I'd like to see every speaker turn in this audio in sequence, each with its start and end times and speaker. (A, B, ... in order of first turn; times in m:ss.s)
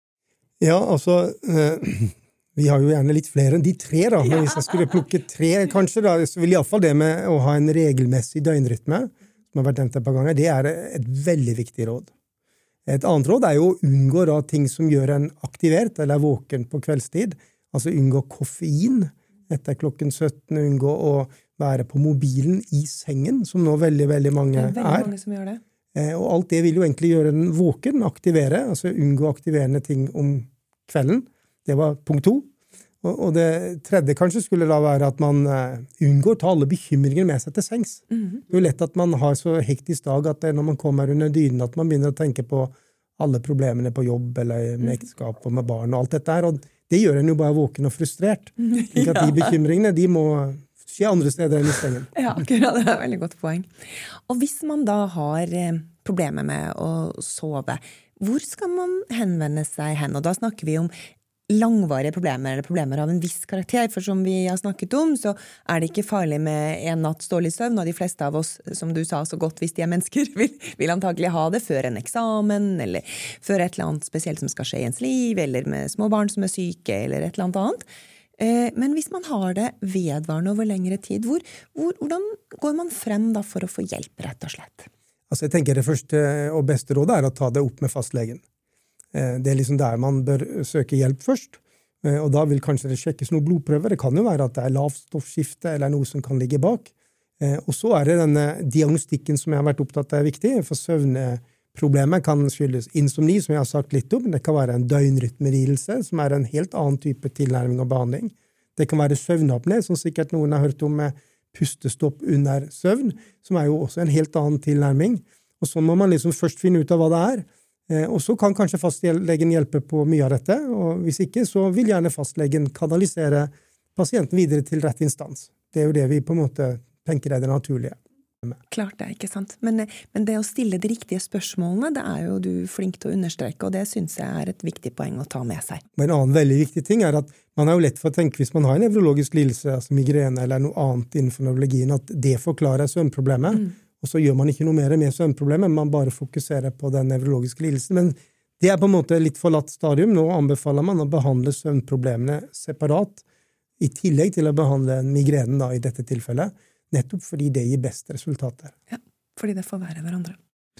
0:00.6-0:12.1 A
0:12.9-0:25.1 A
0:24.5-0:25.6 B
0:25.9-0:32.5 A
0:33.0-0:52.1 A
0:48.7-0:49.5 B
0:52.1-0:53.7 B
0:54.3-1:00.9 B
1:01.5-1:17.9 B
1:18.4-1:24.9 B
1:25.3-1:28.4 A
1:29.1-2:08.5 A
2:08.7-2:15.8 B
2:16.0-2:33.2 A
2:33.8-2:38.7 A
2:38.9-2:40.4 B